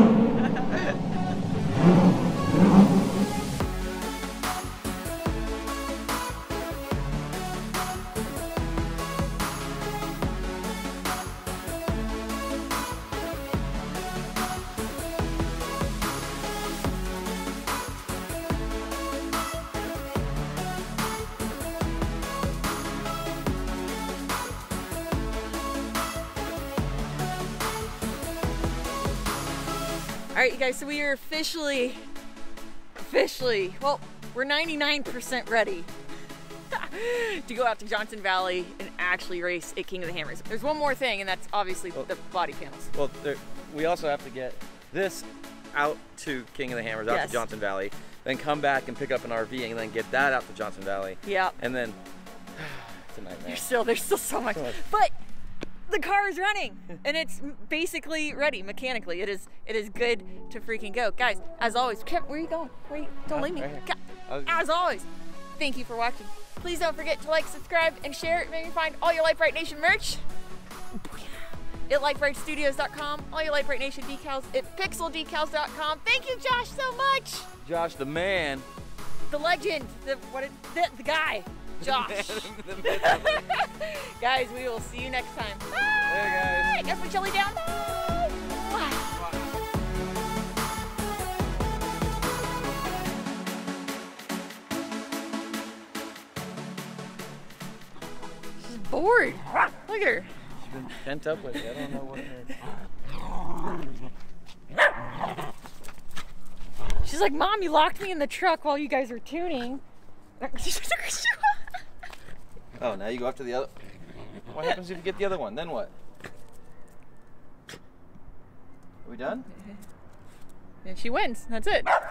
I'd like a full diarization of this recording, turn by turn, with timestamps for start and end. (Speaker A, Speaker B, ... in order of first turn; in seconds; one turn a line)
Speaker A: 0.4-0.7
Speaker A: 30.3-32.0
Speaker A: 33.0-35.9
Speaker A: 36.7-42.9
Speaker B: 42.9-52.0
Speaker A: 47.0-47.5
Speaker A: 51.2-51.6
Speaker B: 52.5-53.7
Speaker A: 53.4-55.1
Speaker B: 54.5-54.8
Speaker A: 55.9-70.2
Speaker B: 63.3-64.6
Speaker A: 71.0-77.5
Speaker B: 77.6-78.7
Speaker A: 79.3-85.8
Speaker B: 81.8-83.4
Speaker B: 86.0-86.8
Speaker A: 86.6-87.6
Speaker A: 88.3-89.2
Speaker A: 98.6-100.3
Speaker B: 100.6-102.5
Speaker A: 107.0-109.8
Speaker A: 110.4-111.6
Speaker B: 112.8-113.7
Speaker B: 114.5-115.9
Speaker B: 119.0-119.5
Speaker A: 120.8-121.9